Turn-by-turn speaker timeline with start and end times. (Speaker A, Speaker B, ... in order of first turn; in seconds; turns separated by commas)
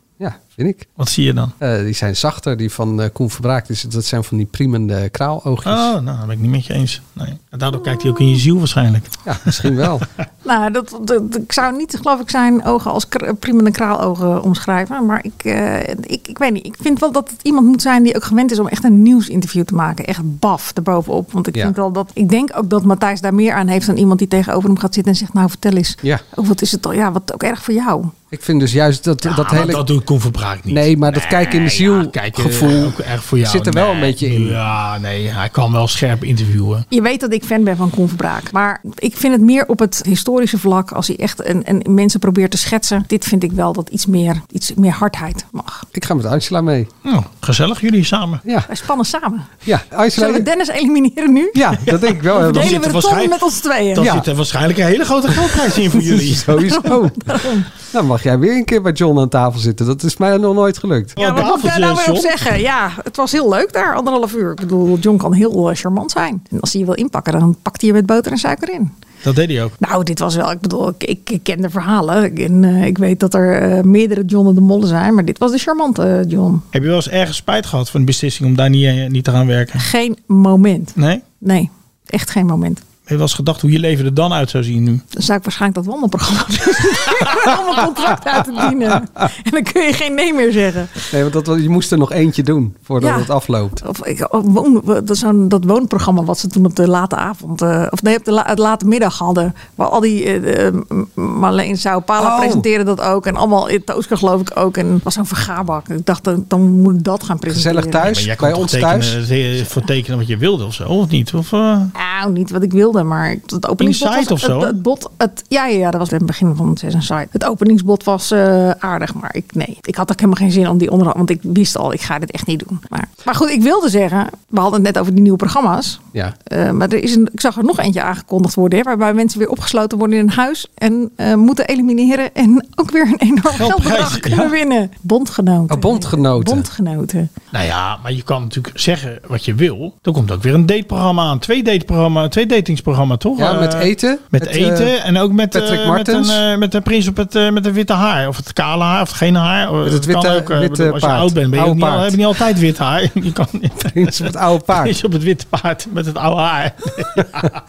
Speaker A: 0.2-0.9, Speaker B: 1.0-1.5, Speaker A: 1.6-5.9, Speaker B: 5.7-9.8, Speaker A: 9.3-10.1, Speaker C: 10.4-28.1, Speaker A: 28.3-29.8, Speaker B: 29.2-36.9, Speaker A: 30.7-34.6, Speaker C: 36.9-45.9, Speaker A: 45.9-46.9, Speaker B: 47.0-48.4, Speaker C: 48.7-49.5, Speaker A: 49.6-50.5, Speaker C: 50.1-54.1, Speaker A: 51.5-52.9, Speaker B: 51.9-56.7, Speaker A: 54.0-54.3, Speaker A: 55.9-61.2, Speaker C: 56.7-57.7, Speaker B: 61.2-62.4, Speaker C: 61.2-68.9, Speaker B: 69.2-69.8, Speaker C: 69.8-76.7, Speaker B: 76.7-79.9, Speaker C: 79.8-82.8, Speaker B: 81.0-81.2, Speaker B: 83.1-85.0, Speaker C: 85.1-91.1, Speaker A: 91.1-93.8, Speaker C: 93.0-108.1, Speaker A: 102.2-102.7, Speaker A: 107.5-109.2, Speaker B: 108.0-111.9, Speaker C: 112.0-137.3, Speaker B: 113.8-114.8, Speaker B: 133.5-134.5, Speaker A: 135.7-136.7, Speaker B: 137.5-157.6, Speaker A: 143.4-144.9, Speaker A: 145.5-146.4, Speaker A: 149.8-152.2, Speaker A: 153.9-154.9